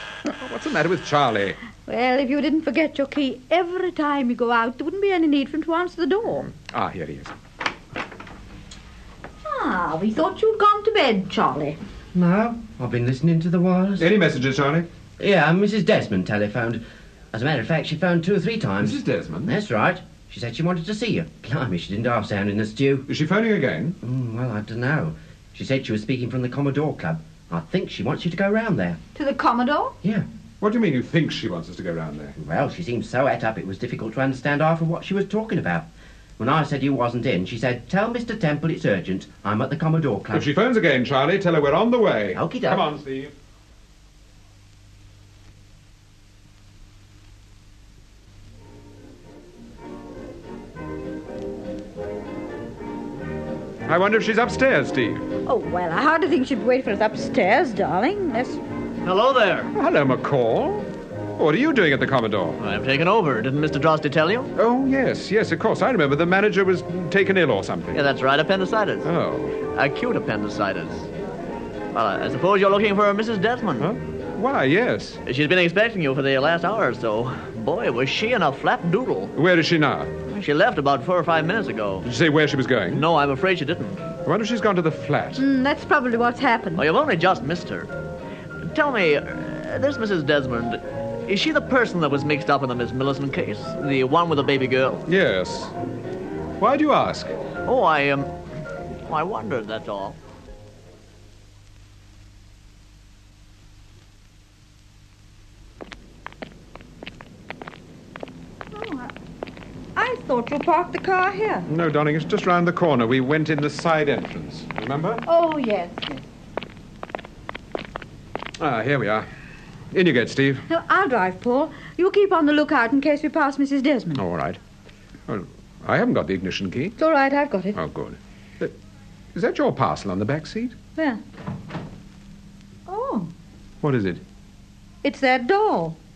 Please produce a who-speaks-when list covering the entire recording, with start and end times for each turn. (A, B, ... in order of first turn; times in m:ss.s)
0:00.2-0:01.6 A
0:01.8-0:06.5 B
0:06.5-0:07.3 A
0:09.4-0:11.8 B
0:12.1-0:14.1 C
0:14.0-0:14.9 A
0:15.2-0:23.1 C
0:18.8-0:19.6 A
0:23.1-0:24.0 A
0:24.0-0:29.0 C
0:29.2-0:30.0 B
0:30.0-0:30.3 C
0:30.6-0:32.4 A
0:32.4-0:40.5 C
0:40.3-0:43.3 A
0:42.3-0:42.8 C
0:53.9-0:55.3 A
0:55.4-0:58.6 B
0:59.0-0:59.7 D
0:59.7-1:02.6 A
1:02.6-1:04.5 D
1:04.6-1:08.0 A
1:07.9-1:09.1 D
1:09.0-1:09.6 A
1:09.7-1:11.1 D
1:11.9-1:13.9 D
1:13.8-1:15.2 A
1:15.2-1:19.3 D
1:19.4-1:20.1 A
1:20.3-1:22.1 D
1:22.0-1:23.1 A
1:22.9-1:24.0 D
1:24.2-1:25.4 A
1:25.4-1:26.8 B
1:26.8-1:27.9 D
1:28.7-1:35.0 D
1:35.1-1:35.7 A
1:36.6-1:37.3 A
1:37.6-1:38.3 D
1:39.1-1:40.2 D
1:48.7-1:49.1 B
1:50.0-1:51.7 B
1:51.7-1:55.2 A
1:55.3-1:56.2 B
1:58.6-1:59.3 A
1:59.9-2:00.6 A
2:00.7-2:04.2 B
2:04.2-2:04.6 A
2:05.3-2:07.0 A
2:07.0-2:07.8 B
2:07.8-2:08.8 A
2:09.3-2:10.8 A
2:11.0-2:11.2 B
2:12.9-2:13.3 B
2:13.8-2:14.2 A
2:15.0-2:16.0 B